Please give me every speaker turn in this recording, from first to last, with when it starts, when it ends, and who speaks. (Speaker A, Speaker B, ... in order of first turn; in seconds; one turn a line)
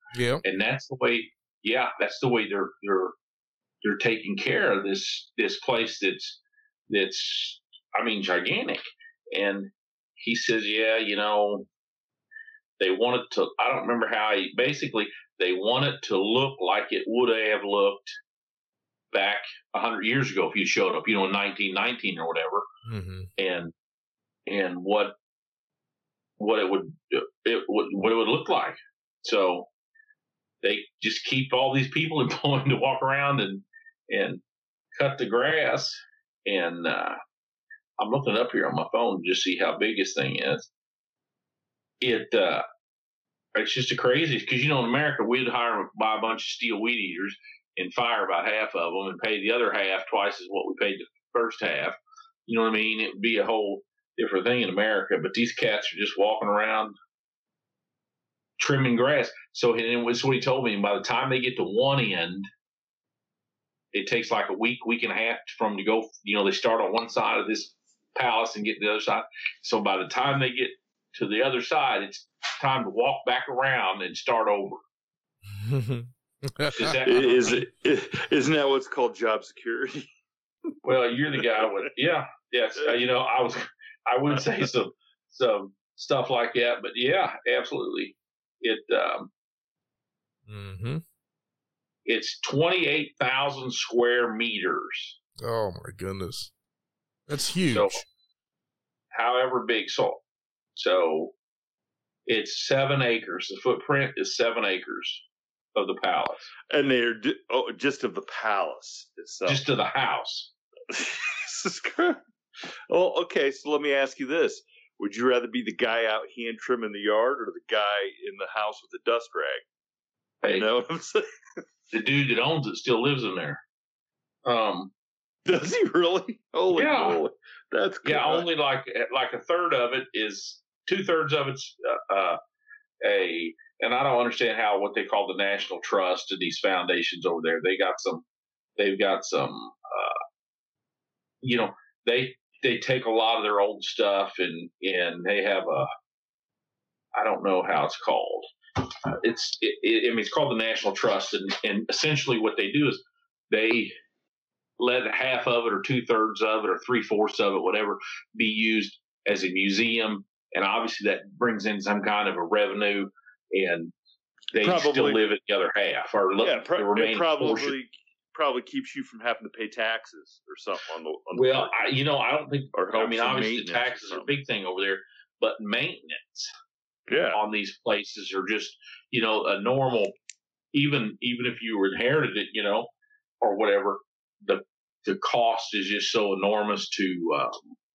Speaker A: 0.1-0.4
Speaker B: 0.4-3.1
Speaker B: 3.8-6.4
Speaker B: 6.9-11.7
Speaker B: 12.8-18.1
Speaker B: 19.1-22.6
Speaker A: 22.9-23.3
Speaker B: 23.4-23.7
Speaker B: 24.5-25.1
Speaker B: 26.4-29.7
Speaker B: 30.6-34.4
Speaker B: 35.0-37.2
Speaker B: 38.0-40.7
Speaker B: 42.0-42.6
Speaker B: 43.5-56.9
Speaker B: 58.6-62.5
Speaker B: 63.9-74.8
Speaker A: 75.6-77.0
Speaker B: 76.7-77.6
Speaker C: 77.0-80.1
Speaker B: 80.8-89.3
Speaker A: 90.5-91.0
Speaker B: 92.1-95.2
Speaker A: 95.4-96.5
Speaker A: 97.3-98.0
Speaker B: 97.7-98.0
Speaker B: 99.1-100.2
Speaker B: 100.8-101.3
Speaker B: 102.3-105.2
Speaker B: 105.7-106.5
Speaker C: 106.7-109.6
Speaker B: 109.5-110.5
Speaker C: 110.9-112.2
Speaker C: 112.9-119.6
Speaker C: 120.5-121.6
Speaker B: 121.9-123.6
Speaker B: 124.4-124.9
Speaker C: 125.5-128.4
Speaker B: 126.7-127.2
Speaker B: 128.0-132.4
Speaker B: 133.0-138.2
Speaker B: 138.8-140.2
Speaker B: 141.4-145.9
Speaker B: 147.1-148.5
Speaker B: 149.1-153.9
Speaker B: 154.8-163.9
Speaker B: 164.5-167.7
Speaker C: 164.5-165.2
Speaker C: 166.4-171.9
Speaker B: 171.3-176.5
Speaker C: 172.7-174.3
Speaker C: 177.1-177.4
Speaker B: 177.3-180.1
Speaker B: 180.7-182.9
Speaker B: 183.4-187.7